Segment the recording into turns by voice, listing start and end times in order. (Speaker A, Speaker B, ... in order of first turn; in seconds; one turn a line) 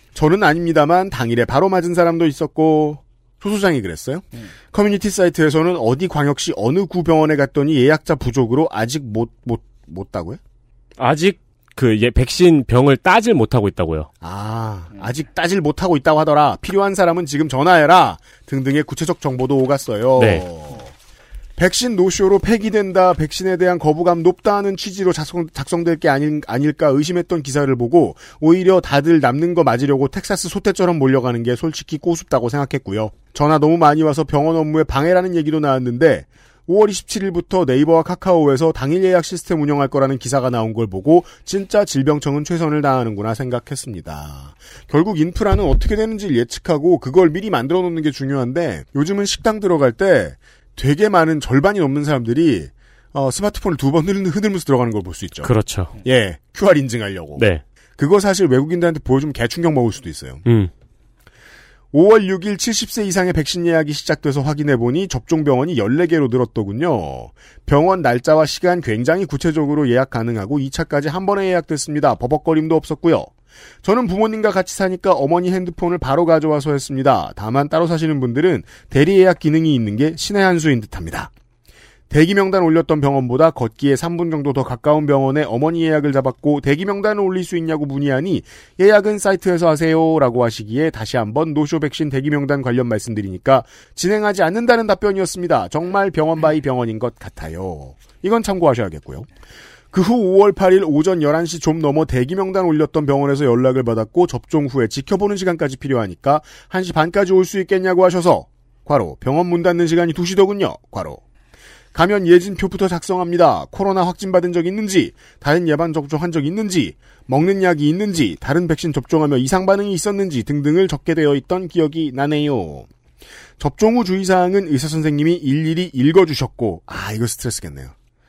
Speaker A: 0.1-10.4
Speaker B: 11.0-14.1
Speaker A: 14.2-20.9
Speaker B: 20.2-20.4
Speaker A: 21.6-55.5
Speaker B: 55.4-55.9
Speaker A: 56.0-57.5
Speaker B: 57.4-57.6
Speaker A: 58.0-60.4
Speaker B: 60.5-60.7
Speaker A: 61.9-73.3
Speaker A: 73.8-81.3
Speaker A: 82.1-99.3
Speaker A: 99.9-111.2
Speaker A: 111.9-122.9
Speaker A: 123.6-127.9